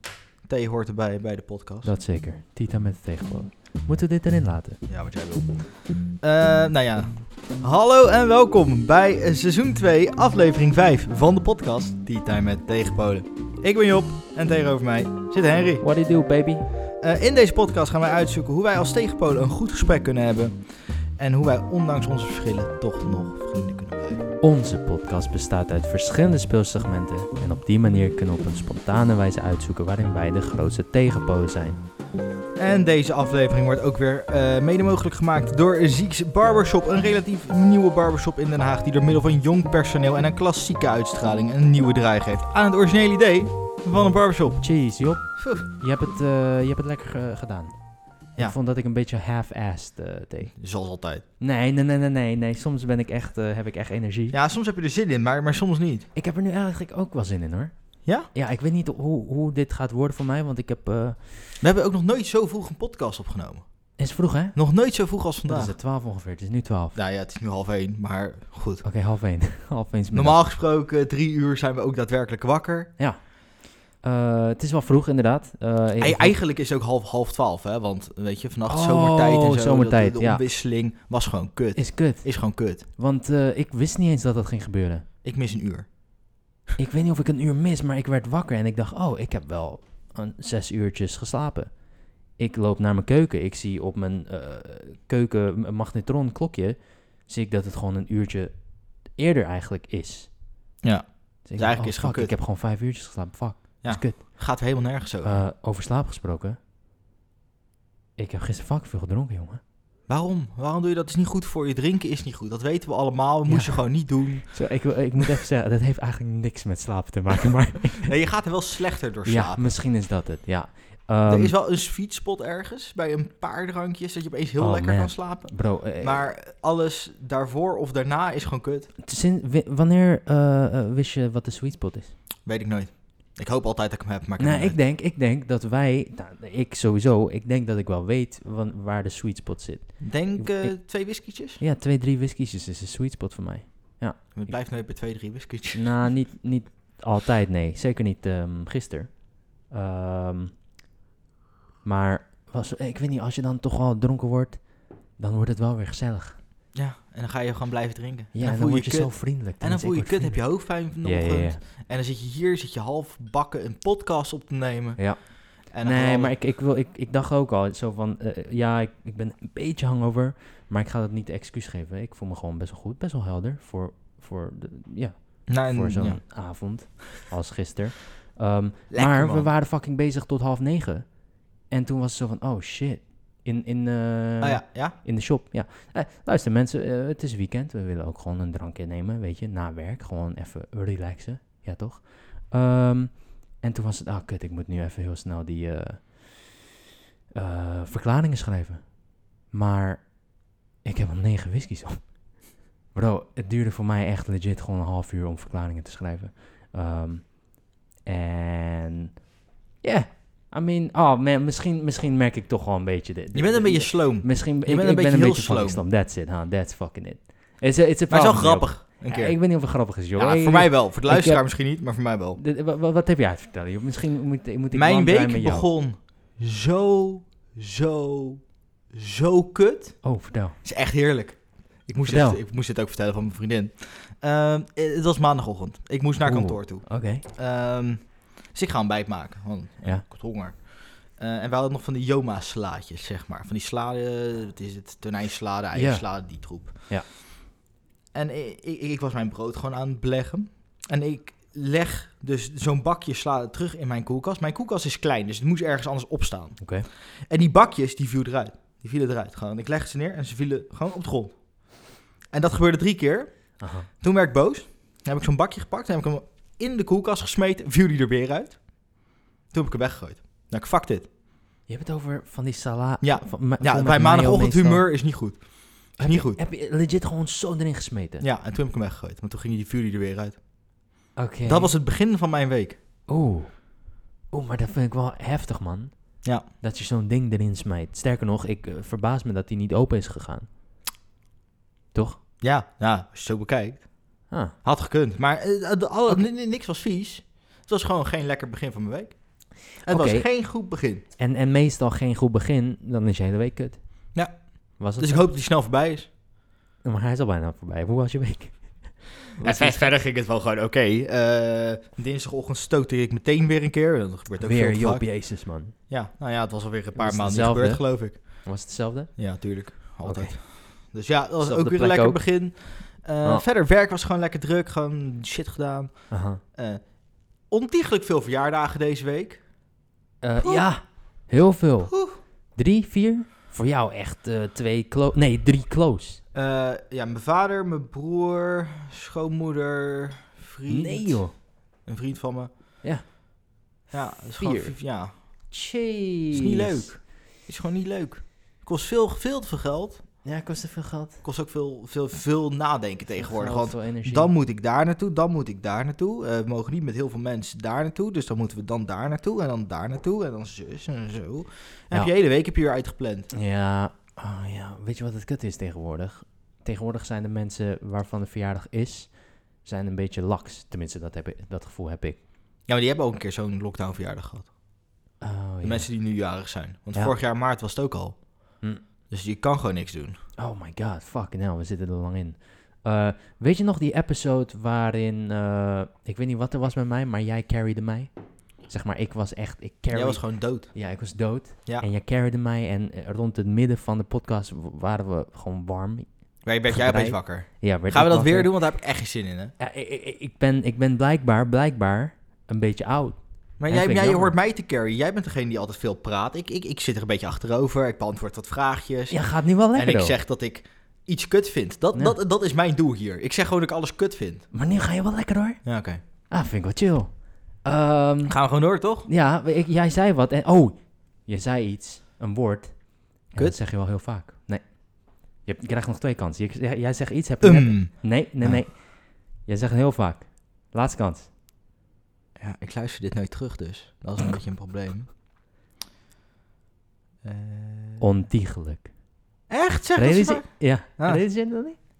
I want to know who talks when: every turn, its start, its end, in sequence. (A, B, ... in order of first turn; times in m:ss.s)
0:00.4-0:01.9 A
0:01.8-0:04.8 B
0:04.9-0:15.9 A
0:15.8-0:16.7 B
0:17.0-0:24.2 A
0:24.4-0:31.8 B
0:32.6-0:44.7 A
0:44.6-0:50.5 B
0:45.4-0:45.7 A
0:50.6-0:51.2 A
0:51.4-0:54.4 B
0:54.3-0:56.1 A
0:56.2-1:01.4 B
1:01.6-1:03.9 A
1:04.0-1:07.0 B
1:04.5-1:05.7 A
1:07.0-1:08.9 A
1:08.8-1:10.4 B
1:10.1-1:12.9 A
1:13.0-1:13.4 B
1:13.9-1:16.4 B
1:16.0-1:22.8 A
1:18.7-1:20.4 B
1:21.8-1:25.1 B
1:25.2-1:26.0 A
1:26.8-1:40.4 B
1:40.8-1:42.3 A
1:41.4-1:44.4 B
1:43.8-1:45.4 A
1:45.2-1:46.6 B
1:48.2-1:49.6 B
1:50.1-1:54.5 A
1:53.5-1:58.1 B
1:58.0-1:59.7 A
1:59.3-2:01.5 B
2:01.3-2:08.9 A
2:04.6-2:06.3 B
2:09.0-2:12.2 B
2:12.4-2:14.8 A
2:14.4-2:20.8 B
2:20.0-2:21.6 A
2:21.6-2:24.5 B
2:24.4-2:26.1 A
2:25.7-2:30.6 B
2:31.8-2:36.4 B
2:36.7-2:46.4 A
2:38.3-2:41.6 B
2:45.0-3:01.2 B
2:55.5-2:56.2 A
2:58.9-2:59.5 A
3:01.7-3:16.7 B
3:04.4-3:05.0 A
3:17.3-3:20.2 B
3:20.8-3:22.3 B
3:22.9-3:27.5 B
3:28.0-3:29.2 B
3:29.8-3:41.5 B
3:33.3-3:35.8 A
3:38.1-3:42.4 A
3:42.4-3:45.7 B
3:44.7-3:48.4 A
3:48.9-4:06.9 A
3:50.0-3:50.6 B
3:52.0-3:52.4 B
3:56.2-3:57.2 B
4:05.7-4:07.1 B
4:08.1-4:31.1 A
4:16.6-4:16.9 B
4:23.6-4:23.9 B
4:31.7-4:34.9 B
4:33.0-4:36.4 A
4:36.0-4:38.2 B
4:38.2-4:40.4 A
4:41.2-4:41.7 B
4:41.4-4:42.8 A
4:43.1-4:43.7 B
4:44.3-4:50.5 B
4:51.9-4:52.2 B
4:52.4-5:01.0 A
4:54.3-4:54.6 B
4:59.8-5:00.4 B
5:01.2-5:04.2 B
5:04.1-5:06.1 A
5:04.8-5:05.3 B
5:06.8-5:09.9 B
5:09.4-5:18.5 A
5:14.4-5:15.8 B
5:17.0-5:20.4 B
5:19.2-5:29.5 A
5:21.4-5:22.6 B
5:26.1-5:26.4 B
5:30.2-5:36.2 B
5:30.4-5:30.7 A
5:31.9-5:32.2 A
5:36.3-5:42.8 A
5:40.7-5:41.3 B
5:42.8-5:43.1 B
5:43.8-5:47.0 B
5:43.9-5:45.5 A
5:46.3-5:50.2 A
5:50.2-5:51.2 B
5:51.2-6:03.3 A
5:53.1-5:54.3 B
6:03.3-6:12.2 B
6:12.7-6:14.5 A
6:15.2-6:15.9 B
6:15.6-6:18.4 A
6:19.1-6:20.2 A
6:20.4-6:38.7 B
6:29.9-6:30.9 A
6:36.4-6:39.5 A
6:39.6-6:44.4 B
6:43.6-6:54.5 A
6:49.1-6:50.2 B
6:51.9-6:52.2 B
6:54.5-6:55.7 B
6:55.6-6:56.0 A
6:56.3-6:58.4 B
6:58.3-6:59.1 A
6:59.0-7:11.3 B
7:07.4-7:08.6 A
7:12.4-7:15.1 A
7:17.2-7:18.0 A
7:18.0-7:18.9 B
7:19.5-7:21.2 A
7:20.0-7:21.9 B